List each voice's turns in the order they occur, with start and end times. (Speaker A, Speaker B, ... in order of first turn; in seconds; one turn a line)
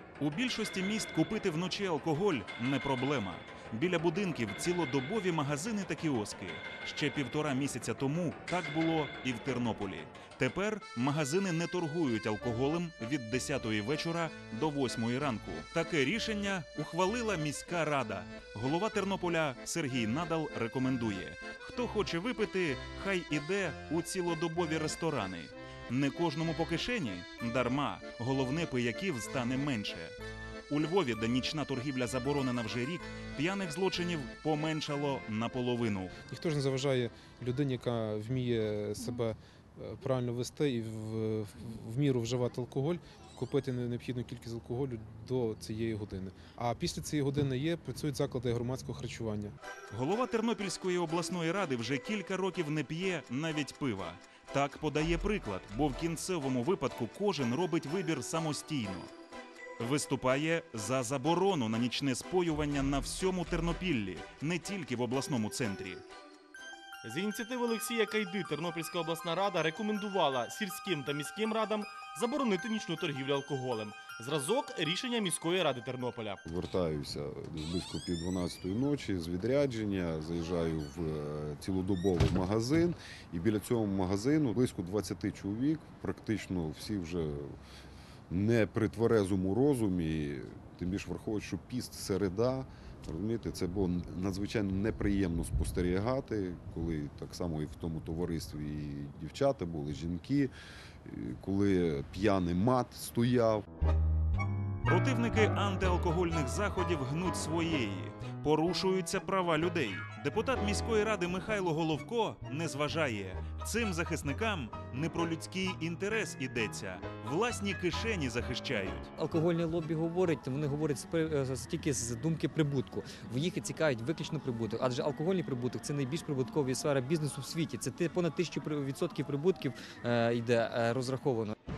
Speaker A: 0.2-30.1
Speaker A: 30.7-36.1
Speaker B: 36.3-49.5
Speaker A: 49.9-59.1
Speaker A: 59.8-66.0
Speaker C: 67.0-76.4
Speaker D: 76.5-87.6
Speaker D: 88.3-100.5
Speaker D: 101.0-103.6
Speaker A: 104.8-119.1
Speaker E: 119.2-131.5